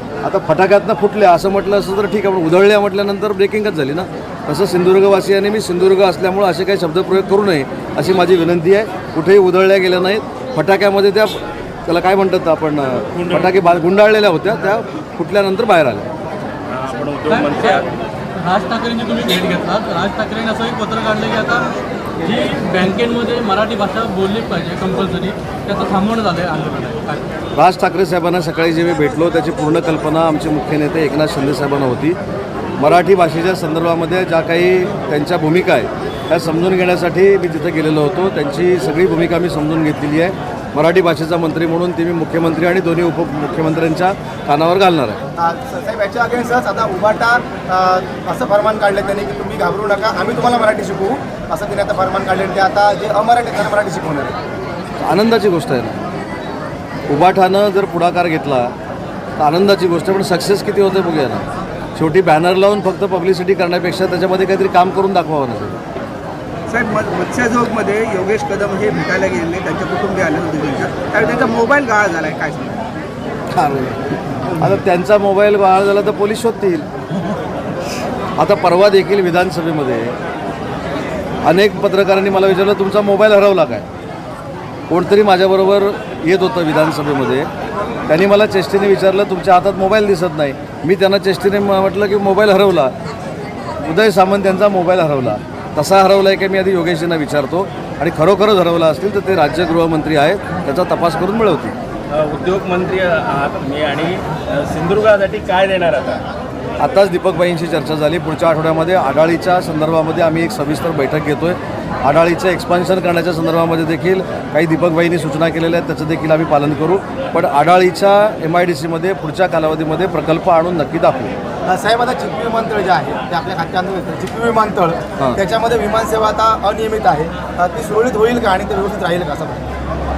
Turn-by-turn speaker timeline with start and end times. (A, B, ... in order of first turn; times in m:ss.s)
0:00.2-0:16.1 A
0:16.7-0:17.9 B
0:17.3-0:17.8 C
0:18.4-0:21.7 C
0:22.2-0:27.3 C
0:27.6-0:32.2 A
0:32.8-0:45.2 A
0:45.4-0:54.4 D
0:55.0-0:56.0 A
0:57.1-0:58.7 A
0:59.4-1:01.4 A
1:02.0-1:05.8 A
1:06.7-1:12.8 E
1:13.5-1:16.9 A
1:18.4-1:20.2 A
1:21.4-1:23.9 A
1:24.9-1:27.5 A
1:28.1-1:32.9 A
1:33.8-1:41.7 A
1:42.1-1:46.2 B
1:46.8-2:01.3 A
2:01.7-2:09.7 D